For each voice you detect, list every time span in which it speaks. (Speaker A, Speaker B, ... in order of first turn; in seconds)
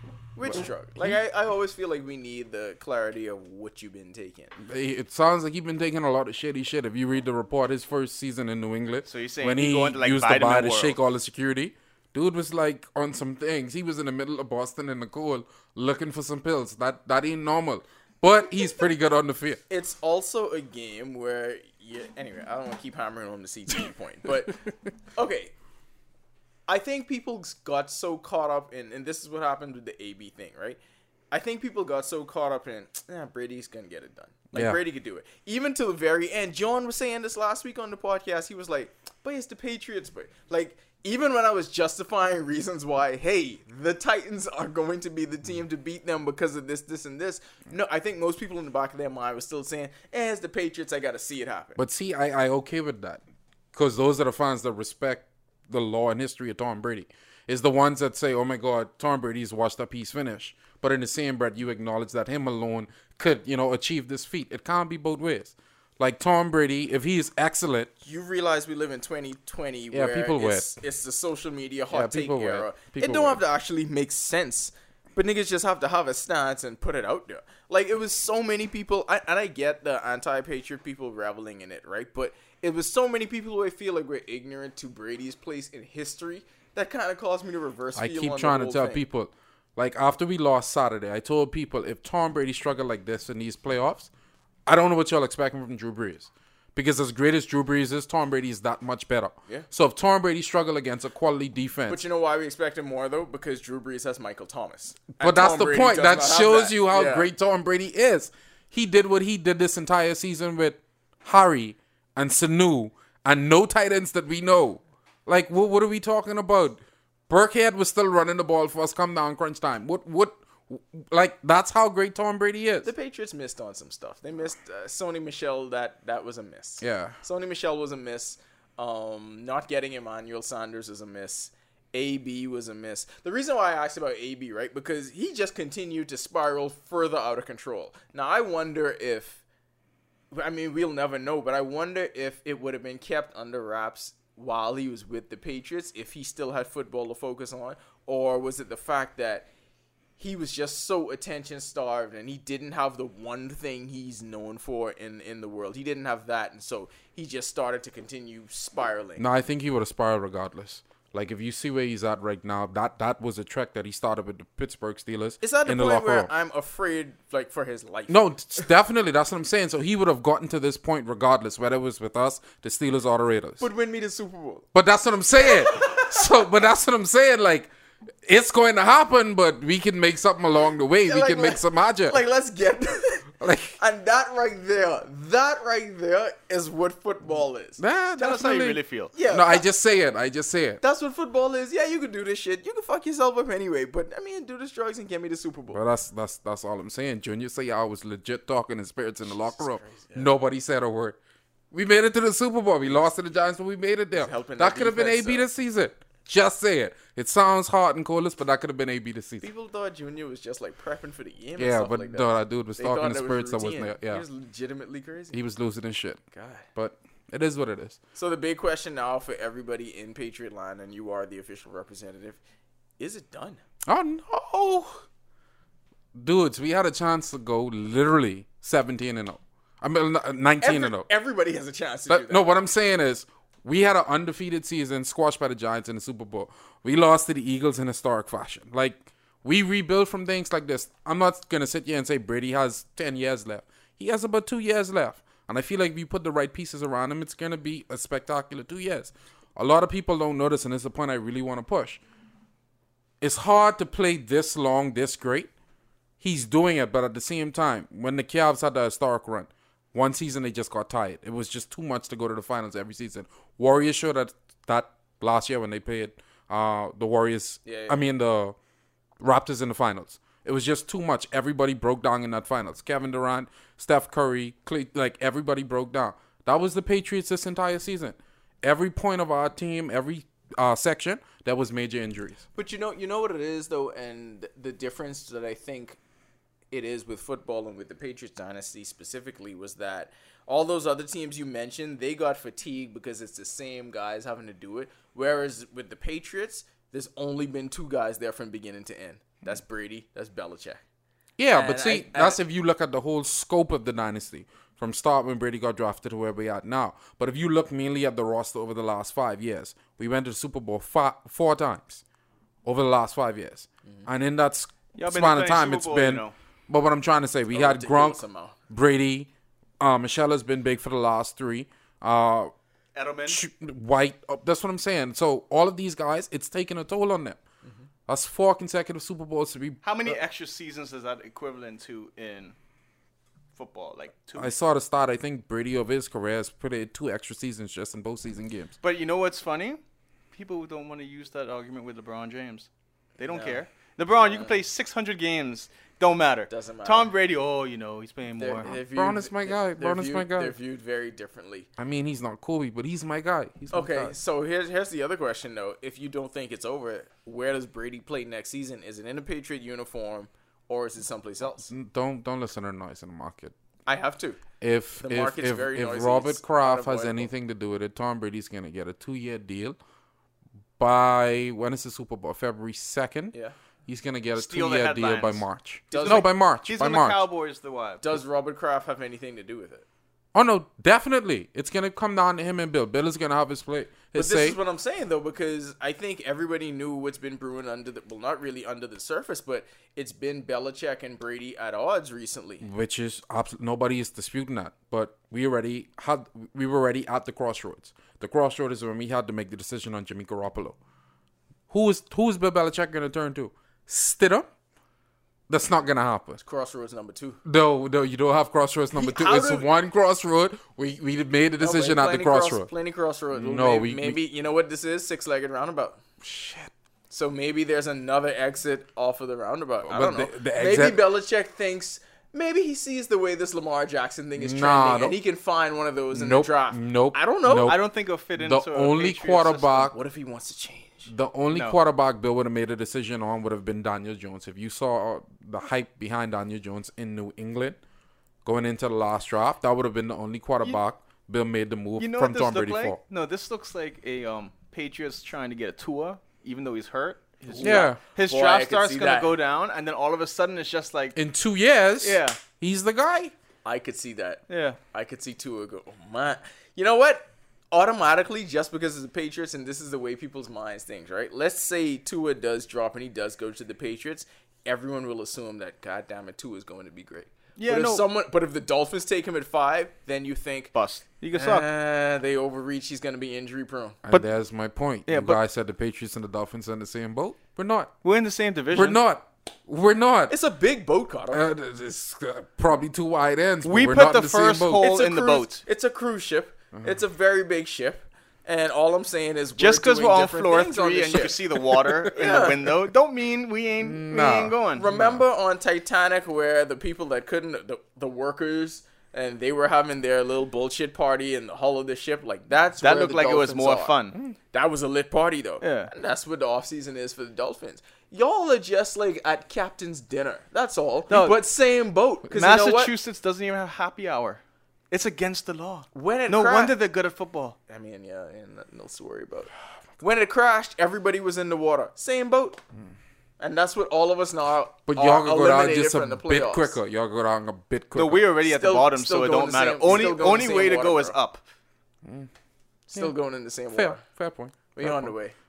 Speaker A: 0.4-4.5, 19.7-24.6, 25.1-25.5, 26.7-30.8, 31.3-51.8, 68.0-89.0, 101.9-107.3, 122.8-139.4, 140.3-149.5, 150.2-159.2, 165.4-168.7, 173.6-174.7, 175.4-176.2, 181.1-187.8, 189.1-189.6, 190.8-195.8, 199.3-200.3, 204.2-205.5, 209.4-215.4, 216.3-216.7, 218.2-222.4, 223.0-223.6, 230.6-232.5, 267.6-268.0, 282.6-286.0, 286.7-300.8, 301.5-302.4, 317.5-318.6, 343.3-343.6, 344.2-344.6, 346.5-347.1, 348.4-351.7, 353.7-361.7, 363.9-364.4, 365.0-367.3, 375.9-376.3, 378.0-379.9, 384.1-392.7, 406.4-407.4, 408.9-409.7, 411.6-416.0, 417.1-427.8, 429.9-431.1, 447.4-449.3, 453.6-470.7, 471.3-474.0, 480.3-481.4, 484.8-491.5, 492.1-492.6, 494.8-503.9, 504.5-512.9, 515.9-516.8, 517.7-522.6, 523.4-526.8, 528.5-531.2, 532.9-534.0, 534.7-535.4
Speaker B: 0.5-1.2, 4.6-19.6, 34.5-34.8, 51.8-53.2, 53.7-67.9, 69.9-70.7, 71.9-73.4, 88.0-94.1, 94.7-102.0, 105.2-122.9, 126.8-127.2, 159.2-166.3, 168.1-173.7, 174.7-177.7, 178.2-182.2, 183.4-183.8, 187.8-190.8, 195.7-201.2, 201.7-209.5, 211.6-214.2, 215.3-216.2, 216.8-218.0, 223.9-225.0, 226.2-231.1, 232.1-252.0, 253.2-255.5, 256.2-268.6, 269.2-282.4, 301.4-312.0, 312.6-322.5, 323.3-327.4, 328.1-330.2, 334.4-338.7, 348.6-350.6, 351.8-354.1, 361.7-363.5, 364.6-369.8, 370.8-373.4, 373.9-377.2, 380.3-384.6, 392.6-400.8, 401.7-404.5, 405.5-406.4, 407.4-412.7, 413.3-414.2, 416.2-416.7, 419.8-421.0, 424.4-425.2, 426.1-427.8, 428.4-430.0, 431.1-437.8, 438.4-443.0, 447.6-448.0, 451.2-453.3, 474.0-477.9, 478.7-480.3, 481.3-484.8, 491.8-492.5, 493.8-495.2, 524.9-528.3, 532.0-532.3, 533.7-535.1
Speaker C: 9.1-11.0, 188.2-189.1, 314.9-316.3, 322.9-323.4, 329.8-332.6, 333.6-334.5, 338.8-339.8, 340.3-342.7, 343.2-348.7, 374.4-378.0, 427.6-429.9, 442.0-451.2, 452.0-452.4, 454.5-454.8, 467.6-468.0, 470.7-471.7, 475.1-475.4, 478.0-479.0, 483.6-485.6, 489.6-494.9, 502.8-504.2, 505.6-505.9, 511.1-511.4, 512.3-514.4, 514.9-517.6, 528.0-531.4